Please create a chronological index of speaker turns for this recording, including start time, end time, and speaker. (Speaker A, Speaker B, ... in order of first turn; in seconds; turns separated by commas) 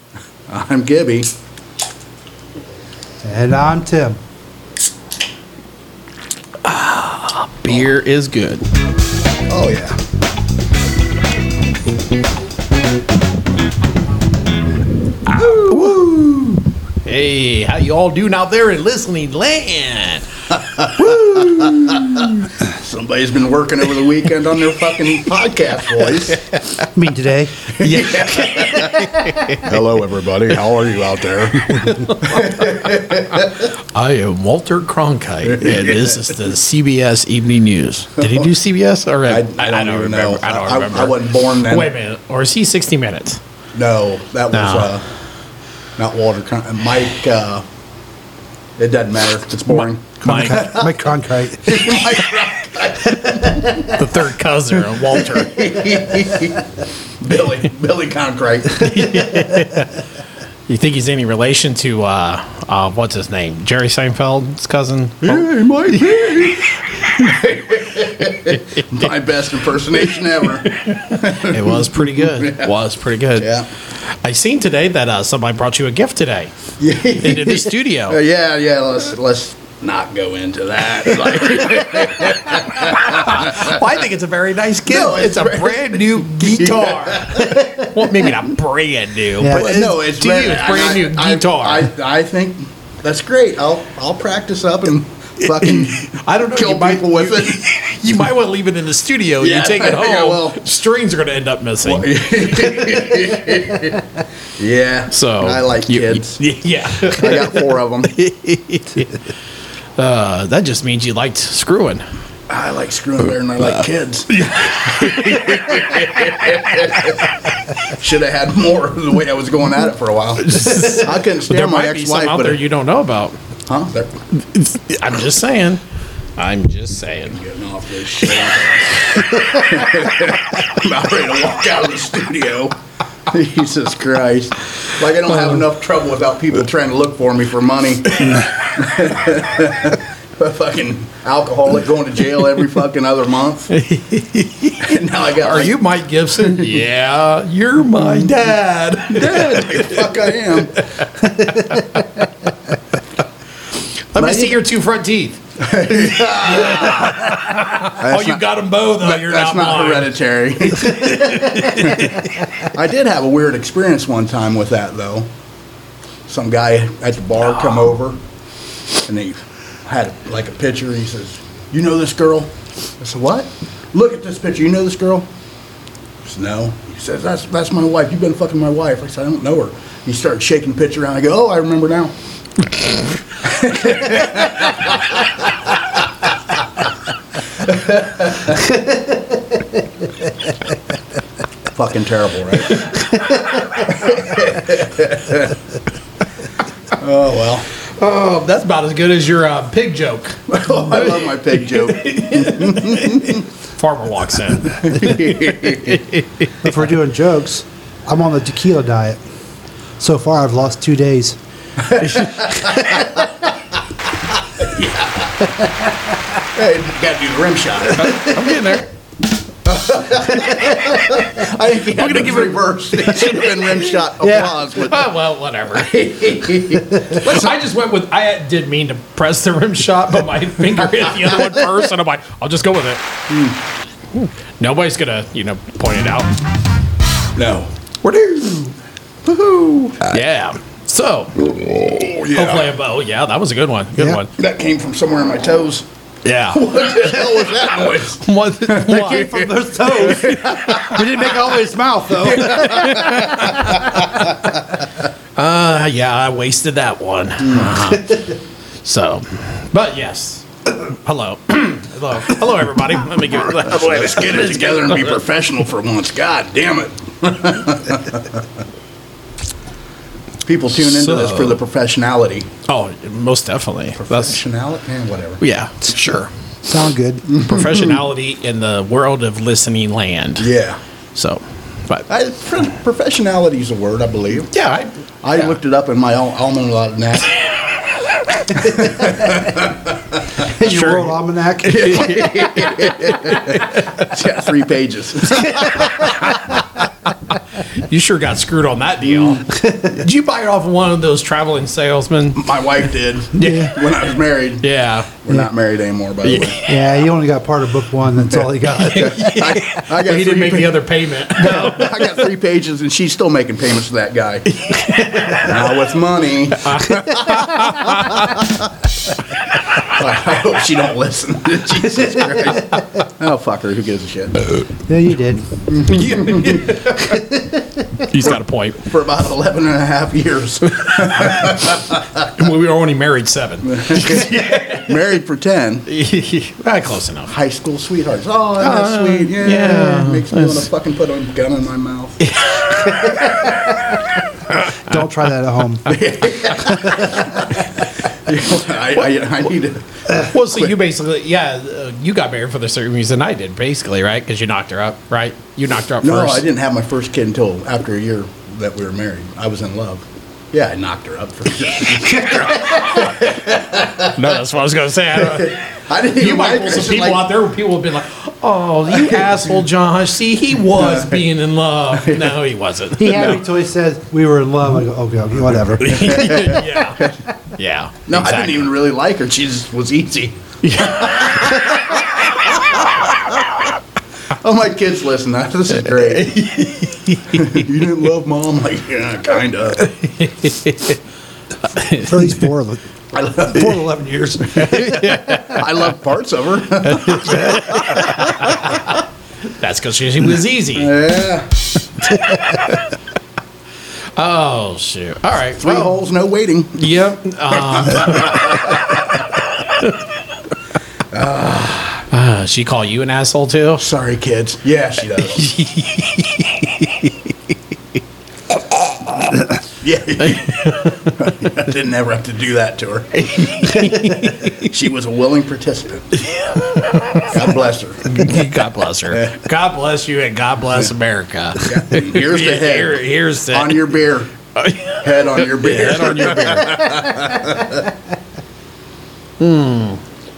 Speaker A: 0.5-1.3, Speaker B: 3.2-4.2, Speaker C: 6.6-8.7, Speaker A: 9.5-10.0, Speaker A: 15.3-16.6, Speaker C: 15.4-16.1, Speaker C: 17.1-20.3, Speaker A: 20.8-26.4, Speaker C: 20.9-22.5, Speaker C: 26.3-26.9, Speaker B: 26.9-27.6, Speaker A: 27.8-33.7, Speaker C: 27.8-29.7, Speaker C: 31.6-43.4, Speaker A: 35.5-36.3, Speaker A: 38.2-38.5, Speaker A: 39.3-41.9, Speaker A: 43.7-45.0, Speaker C: 44.5-44.9, Speaker A: 46.0-47.6, Speaker A: 48.8-51.0, Speaker C: 49.7-50.7, Speaker B: 50.2-52.0, Speaker A: 51.6-54.1, Speaker C: 53.7-56.0, Speaker A: 55.0-56.7, Speaker A: 57.2-59.3, Speaker C: 58.8-60.0, Speaker C: 60.7-67.4, Speaker A: 65.2-72.7, Speaker C: 68.5-69.1, Speaker C: 70.7-73.5, Speaker A: 73.4-73.7, Speaker C: 74.2-76.5, Speaker A: 76.8-83.8, Speaker C: 77.2-78.2, Speaker C: 81.3-91.9, Speaker A: 84.9-87.6, Speaker B: 89.4-89.9, Speaker A: 89.5-97.7, Speaker C: 95.4-103.2, Speaker A: 99.4-100.6, Speaker A: 101.8-104.0, Speaker A: 104.6-106.4, Speaker C: 105.1-109.2, Speaker A: 107.0-108.1, Speaker C: 110.0-112.0, Speaker A: 112.5-122.6, Speaker C: 113.6-117.1, Speaker C: 120.4-123.4, Speaker A: 123.7-124.2, Speaker C: 124.3-125.8, Speaker C: 126.4-127.4, Speaker A: 127.3-132.8, Speaker C: 128.3-130.3, Speaker A: 133.3-143.7, Speaker C: 138.2-138.5, Speaker C: 143.7-150.2, Speaker A: 144.8-145.8, Speaker A: 146.4-146.8, Speaker A: 149.1-150.9, Speaker C: 150.8-152.3, Speaker B: 151.4-152.0, Speaker C: 154.1-160.1, Speaker A: 154.2-154.6, Speaker A: 155.6-165.3, Speaker C: 160.8-162.5, Speaker A: 166.3-168.2, Speaker A: 169.0-175.3, Speaker A: 176.2-182.1, Speaker A: 183.4-185.8, Speaker A: 187.6-188.6, Speaker A: 191.7-192.9, Speaker C: 192.7-193.7, Speaker A: 193.8-195.6, Speaker A: 196.9-197.7, Speaker C: 197.9-206.5, Speaker A: 200.5-203.4, Speaker A: 204.8-206.1, Speaker B: 206.6-209.2, Speaker B: 210.0-211.4, Speaker A: 211.8-213.3, Speaker B: 212.6-213.1, Speaker A: 214.4-215.6, Speaker A: 216.4-218.4, Speaker C: 217.9-218.9, Speaker A: 219.7-225.1, Speaker B: 220.4-221.0, Speaker C: 221.9-222.6, Speaker B: 223.0-224.5, Speaker C: 224.8-233.1, Speaker A: 225.8-227.6, Speaker A: 233.3-233.6, Speaker C: 234.1-236.3, Speaker A: 237.4-237.7, Speaker C: 238.0-238.8, Speaker A: 239.2-240.1, Speaker C: 240.0-241.5, Speaker A: 241.6-242.7, Speaker C: 242.3-244.3, Speaker A: 244.4-245.8, Speaker C: 246.2-249.4, Speaker A: 246.5-251.1, Speaker B: 248.9-254.4, Speaker C: 250.0-251.0, Speaker A: 252.2-254.3, Speaker C: 252.4-253.8, Speaker C: 255.4-265.2, Speaker A: 257.4-257.8, Speaker A: 263.6-268.4, Speaker A: 270.4-272.5, Speaker C: 270.8-271.6, Speaker C: 272.7-274.4, Speaker A: 274.0-275.4, Speaker C: 275.4-276.3, Speaker B: 276.6-277.3, Speaker A: 277.3-278.0, Speaker C: 277.4-280.5, Speaker A: 280.4-280.8, Speaker C: 281.1-282.1, Speaker A: 282.1-284.5, Speaker C: 284.5-285.5, Speaker A: 285.2-287.5, Speaker A: 288.4-290.2, Speaker B: 290.4-292.4, Speaker C: 290.6-294.1, Speaker A: 291.6-296.3, Speaker C: 295.4-302.4, Speaker A: 302.4-304.7, Speaker C: 303.4-303.7, Speaker B: 303.4-303.7, Speaker C: 304.6-305.1, Speaker A: 305.2-306.6, Speaker C: 306.2-306.8, Speaker B: 306.7-309.2, Speaker A: 308.3-318.5, Speaker C: 308.8-312.2, Speaker C: 314.5-315.6, Speaker C: 316.6-318.5, Speaker A: 319.8-324.5, Speaker B: 324.9-325.7, Speaker A: 325.7-326.7, Speaker C: 325.8-327.2, Speaker B: 327.0-327.9, Speaker C: 328.1-328.8, Speaker A: 328.8-332.3, Speaker C: 330.7-331.5, Speaker C: 332.4-335.0, Speaker A: 333.6-335.9, Speaker C: 335.9-337.3, Speaker A: 337.3-342.3, Speaker C: 338.6-340.7, Speaker C: 342.2-343.8, Speaker C: 344.5-345.0, Speaker B: 344.8-346.0, Speaker A: 345.9-350.7, Speaker B: 346.6-347.5, Speaker C: 350.1-356.4, Speaker A: 356.0-364.4, Speaker C: 362.2-363.0, Speaker C: 364.1-365.6, Speaker A: 365.1-367.3, Speaker C: 366.2-373.4, Speaker A: 368.9-369.4, Speaker A: 370.7-371.2, Speaker A: 372.0-372.3, Speaker B: 373.0-376.5, Speaker C: 375.8-378.7, Speaker A: 375.9-377.1, Speaker A: 378.1-383.5, Speaker C: 380.6-381.7, Speaker A: 384.4-386.4, Speaker C: 385.9-387.7, Speaker A: 387.3-389.9, Speaker C: 389.8-391.0, Speaker C: 391.6-392.4, Speaker B: 392.0-392.8, Speaker A: 393.1-398.9, Speaker B: 393.4-395.6, Speaker C: 394.6-395.6, Speaker C: 396.9-400.9, Speaker A: 400.8-401.6, Speaker C: 402.4-402.8, Speaker C: 404.1-405.9, Speaker A: 405.6-406.8, Speaker C: 406.8-410.0, Speaker A: 407.5-409.0, Speaker A: 411.1-412.1, Speaker C: 412.1-413.8, Speaker A: 413.8-415.5, Speaker C: 415.3-417.1, Speaker A: 419.8-426.1, Speaker C: 420.2-421.0, Speaker C: 423.1-424.6, Speaker C: 426.3-427.3, Speaker A: 427.1-428.1, Speaker C: 428.0-433.9, Speaker A: 429.1-429.4, Speaker A: 431.6-434.3, Speaker C: 434.6-437.3, Speaker A: 435.0-437.9, Speaker C: 439.4-440.0